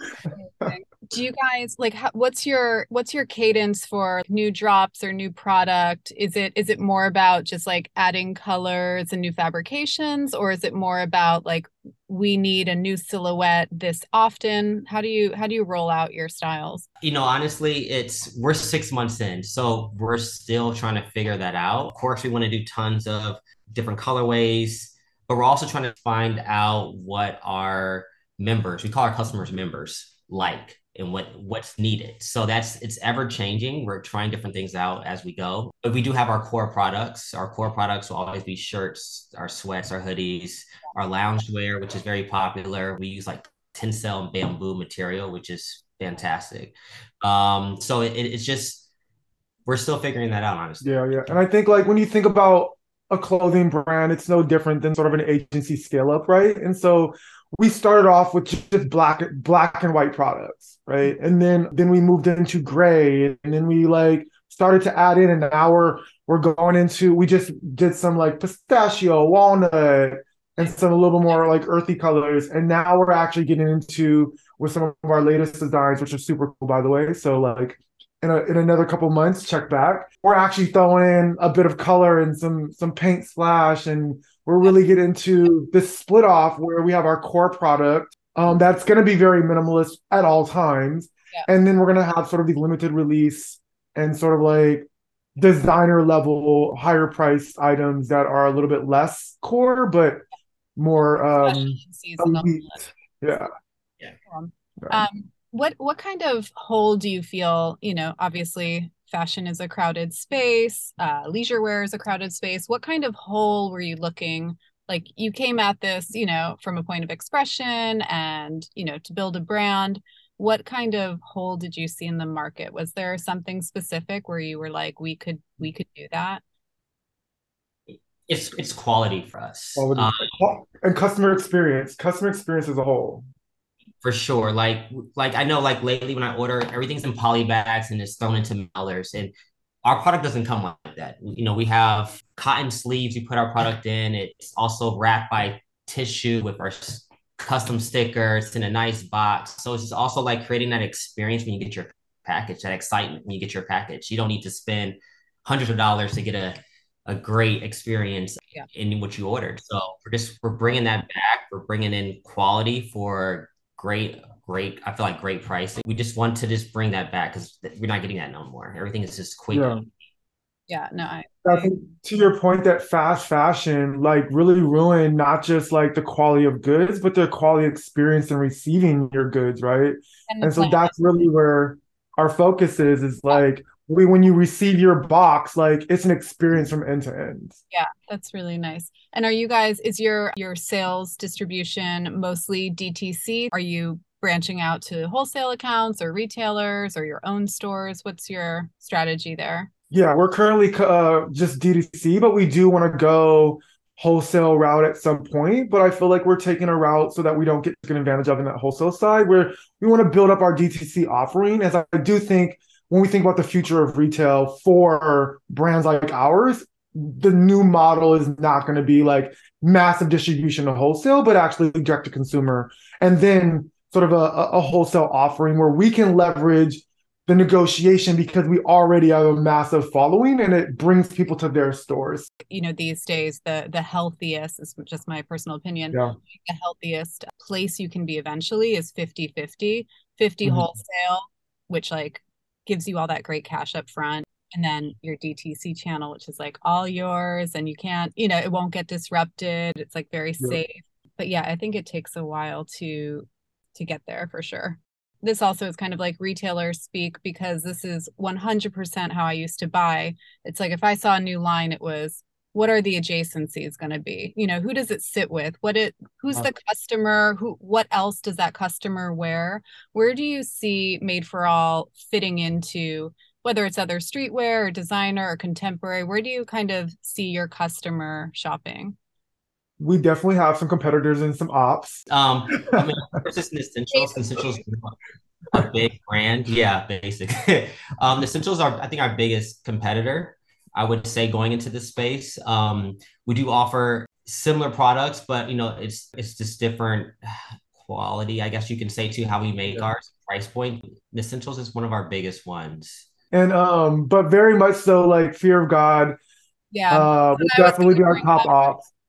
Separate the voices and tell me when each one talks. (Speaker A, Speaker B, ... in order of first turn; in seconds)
Speaker A: 0.3-16.9, 101.3-102.9, 104.3-126.4, 170.7-171.8, 180.3-180.9, 187.7-199.7, 232.5-279.0, 283.9-284.6, 306.7-308.8
Speaker B: 17.0-48.9, 49.7-51.2, 127.9-130.4, 134.0-139.3, 139.8-169.9, 282.1-284.9, 285.5-303.1
Speaker C: 50.8-100.2, 100.8-103.5, 129.8-133.3, 169.5-169.8, 171.4-187.6, 199.9-232.3, 279.8-282.1, 303.3-306.2, 306.9-308.9